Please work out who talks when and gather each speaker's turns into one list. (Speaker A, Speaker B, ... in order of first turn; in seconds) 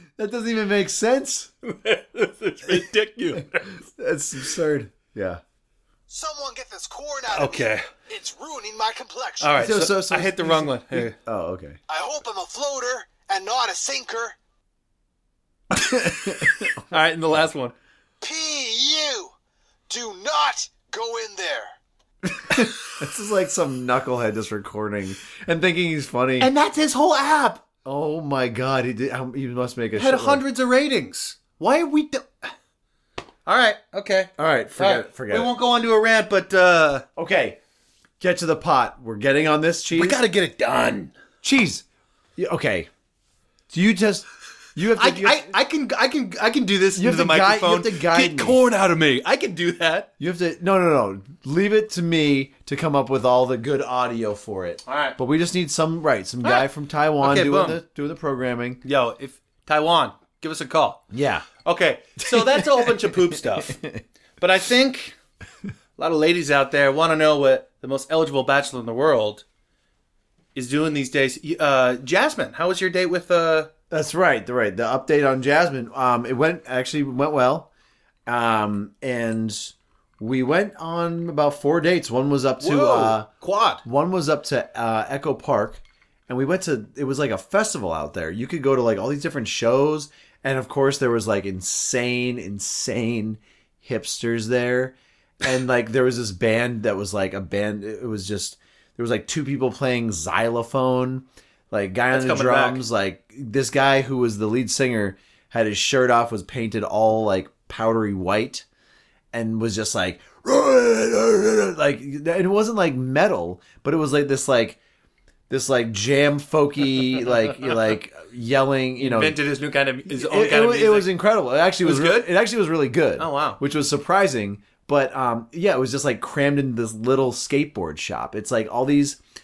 Speaker A: 0.2-1.5, 3.8-5.4, 9.6-11.8, 15.7-16.8, 22.2-26.5, 27.8-30.4, 34.4-35.5, 37.1-37.6, 38.2-40.2, 41.4-41.8, 42.4-42.9, 43.7-45.5, 47.0-48.6, 50.2-58.8, 61.1-61.5, 62.2-64.0, 73.9-77.7, 78.3-83.3, 83.8-108.7, 109.3-114.8, 115.5-119.4, 120.1-129.2
Speaker B: 1.6-3.8, 7.3-7.9, 9.4-11.2, 15.8-17.7, 26.4-27.6, 29.9-32.5, 33.5-37.0, 39.9-41.1, 44.9-50.1, 54.9-55.1, 57.2-57.8, 58.8-61.1, 61.6-63.8, 64.4-65.2, 66.0-69.4, 70.5-73.7, 82.6-83.8, 102.1-102.8, 119.0-121.1, 121.8-122.3, 123.2-123.6
Speaker C: 6.1-9.6, 11.9-14.3, 18.2-19.3, 19.9-21.7